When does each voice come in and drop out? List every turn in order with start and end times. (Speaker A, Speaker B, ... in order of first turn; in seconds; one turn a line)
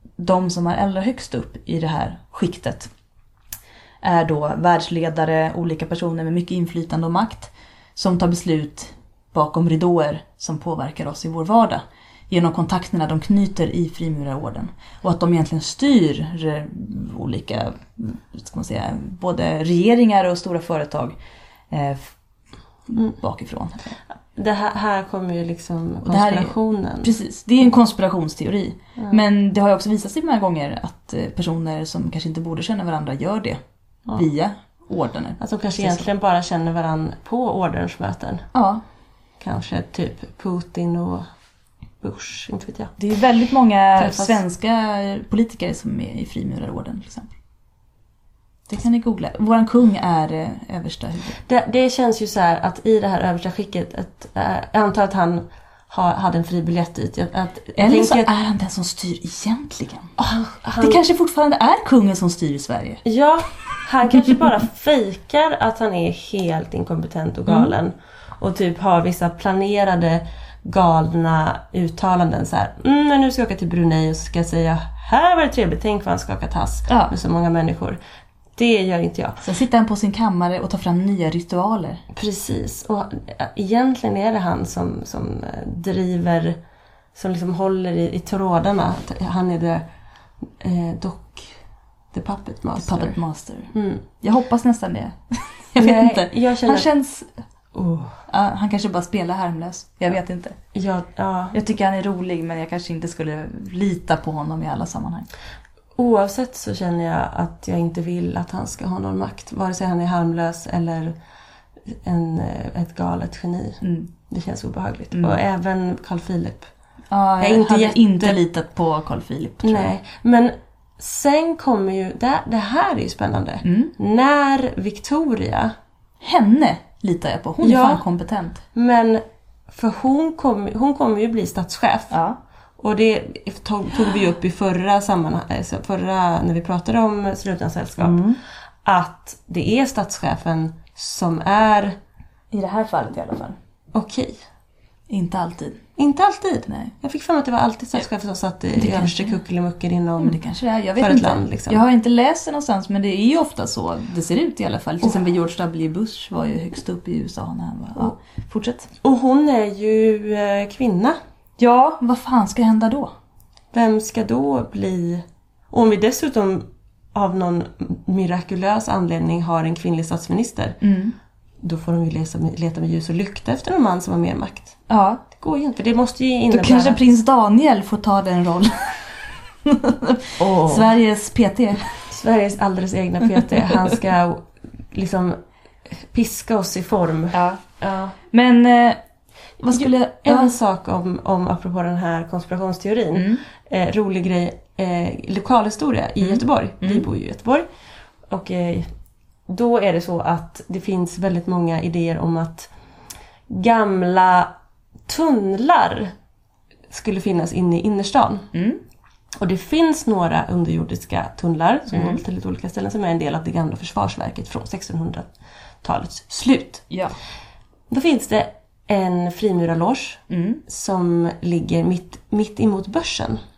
Speaker A: 0.2-2.9
Speaker A: 4.0-21.1
Speaker A: 21.7-22.2
Speaker A: 22.9-24.0
Speaker B: 24.4-27.1
Speaker A: 26.1-33.6
Speaker A: 34.1-36.1
Speaker B: 35.4-38.5
Speaker A: 38.5-38.8
Speaker B: 39.4-41.3
Speaker B: 42.0-43.0
Speaker A: 43.0-47.3
Speaker B: 44.0-44.4
Speaker A: 48.7-51.4
Speaker B: 51.5-58.3
Speaker A: 57.8-60.1
Speaker B: 60.2-61.0
Speaker A: 60.8-63.0
Speaker B: 63.0-78.0
Speaker A: 76.9-77.1
Speaker B: 78.6-79.4
Speaker A: 79.4-82.0
Speaker B: 82.1-86.6
Speaker B: 87.2-89.9
Speaker B: 90.6-91.6
Speaker B: 92.1-93.2
Speaker A: 92.8-97.3
Speaker B: 93.7-94.0
Speaker B: 95.8-96.9
Speaker B: 97.7-98.2
Speaker A: 98.3-100.6
Speaker B: 100.7-101.6
Speaker A: 101.5-105.3
Speaker B: 106.0-111.2
Speaker B: 111.9-116.7
Speaker A: 113.8-114.1
Speaker A: 115.1-115.4
Speaker A: 117.1-119.9
Speaker B: 117.4-118.4
Speaker B: 119.6-125.7
Speaker A: 123.6-123.9
Speaker A: 126.2-128.6
Speaker B: 127.6-128.0
Speaker B: 128.7-132.2
Speaker A: 132.1-132.4
Speaker B: 132.8-138.2
Speaker A: 138.0-138.4
Speaker B: 138.8-141.9
Speaker A: 142.5-143.6
Speaker B: 143.9-144.4
Speaker A: 145.1-145.8
Speaker B: 146.0-150.4
Speaker A: 146.7-146.9
Speaker A: 148.8-149.4
Speaker A: 150.2-158.9
Speaker B: 151.0-151.8
Speaker B: 159.0-161.2
Speaker A: 161.6-163.1
Speaker B: 163.7-170.8
Speaker A: 170.8-171.2
Speaker B: 171.6-174.8
Speaker A: 174.9-175.2
Speaker B: 175.3-177.0
Speaker A: 176.5-182.1
Speaker B: 180.4-180.9
Speaker B: 182.1-188.2
Speaker A: 187.3-187.6
Speaker A: 188.3-189.0
Speaker A: 189.6-190.5
Speaker B: 189.7-197.7
Speaker A: 193.1-193.4
Speaker A: 196.2-197.1
Speaker B: 198.3-198.9
Speaker B: 199.5-202.7
Speaker B: 203.5-204.5
Speaker B: 205.1-206.1
Speaker B: 206.9-208.5
Speaker A: 208.5-208.8
Speaker B: 209.4-215.3
Speaker A: 211.9-212.2
Speaker B: 215.8-216.9
Speaker A: 216.9-217.2
Speaker B: 217.9-223.4
Speaker A: 220.3-220.6